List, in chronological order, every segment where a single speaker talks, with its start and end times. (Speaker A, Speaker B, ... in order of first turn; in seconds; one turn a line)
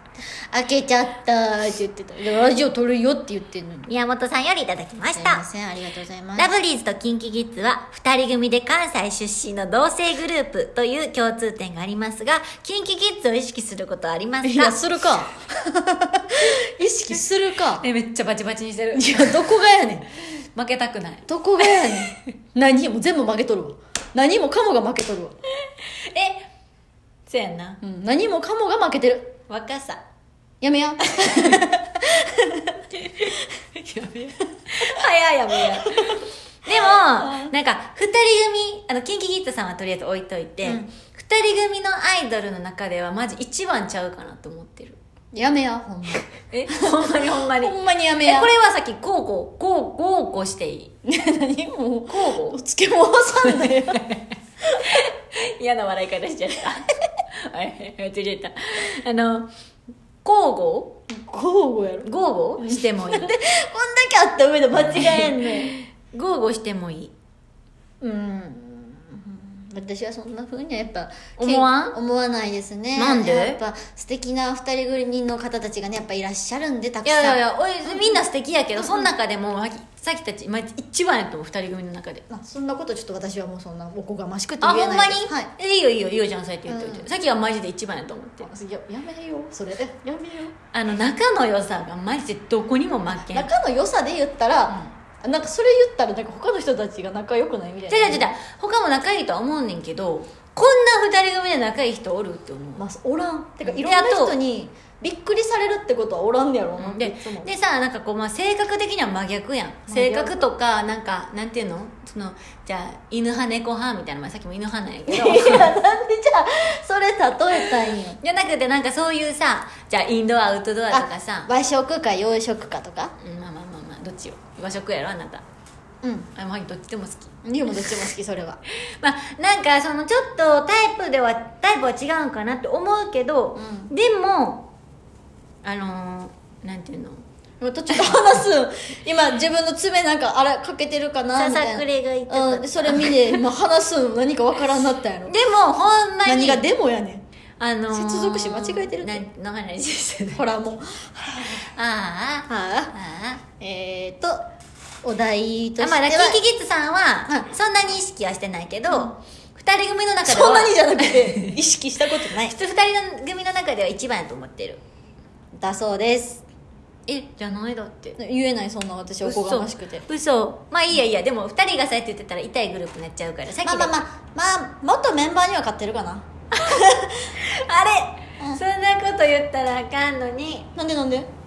Speaker A: 0.5-3.9
Speaker B: 3.9-5.4
Speaker A: 5.1-6.6
Speaker B: 6.4-14.8
Speaker A: 14.4-17.9
Speaker B: 17.7-19.6
Speaker A: 18.9-20.1
Speaker B: 20.6-22.3
Speaker A: 21.3-25.3
Speaker B: 25.9-26.5
Speaker B: 27.3-27.8
Speaker A: 27.8-29.4
Speaker B: 29.5-30.0
Speaker A: 30.6-32.5
Speaker B: 31.2-31.7
Speaker B: 32.9-45.0
Speaker A: 36.7-37.5
Speaker A: 40.6-40.9
Speaker A: 45.3-48.5
Speaker B: 46.5-50.9
Speaker A: 51.0-54.1
Speaker B: 52.1-52.6
Speaker B: 53.5-54.2
Speaker B: 54.8-59.5
Speaker B: 60.2-61.0
Speaker A: 61.1-62.1
Speaker B: 62.0-63.4
Speaker A: 62.6-65.7
Speaker B: 64.9-67.1
Speaker A: 68.0-78.2
Speaker B: 71.4-72.0
Speaker B: 73.0-73.6
Speaker B: 77.0-82.3
Speaker A: 78.8-79.1
Speaker A: 82.3-85.5
Speaker B: 84.6-88.5
Speaker A: 86.7-87.1
Speaker A: 88.4-90.5
Speaker B: 90.7-93.5
Speaker A: 93.3-98.4
Speaker B: 97.9-102.9
Speaker A: 102.8-107.5
Speaker B: 103.6-104.4
Speaker B: 106.8-115.8
Speaker A: 109.9-110.4
Speaker A: 115.1-118.2
Speaker B: 117.8-121.5
Speaker A: 120.9-123.1
Speaker B: 123.2-125.4
Speaker A: 126.0-126.3
Speaker B: 126.3-127.3
Speaker A: 127.4-128.6
Speaker B: 128.9-134.7
Speaker A: 133.6-133.9
Speaker B: 135.6-137.2
Speaker A: 137.6-145.3
Speaker B: 137.9-138.4
Speaker B: 141.3-143.4
Speaker B: 145.3-146.6
Speaker A: 146.2-147.2
Speaker B: 147.6-150.5
Speaker A: 147.9-149.3
Speaker A: 150.3-151.5
Speaker B: 151.4-153.4
Speaker A: 152.5-152.9
Speaker A: 153.6-154.4
Speaker A: 155.0-156.4
Speaker B: 155.8-164.8
Speaker A: 160.3-162.6
Speaker A: 165.6-166.4
Speaker B: 167.1-168.2
Speaker A: 168.2-170.1
Speaker B: 169.2-174.0
Speaker A: 173.6-176.3
Speaker B: 176.5-180.7
Speaker A: 180.8-181.3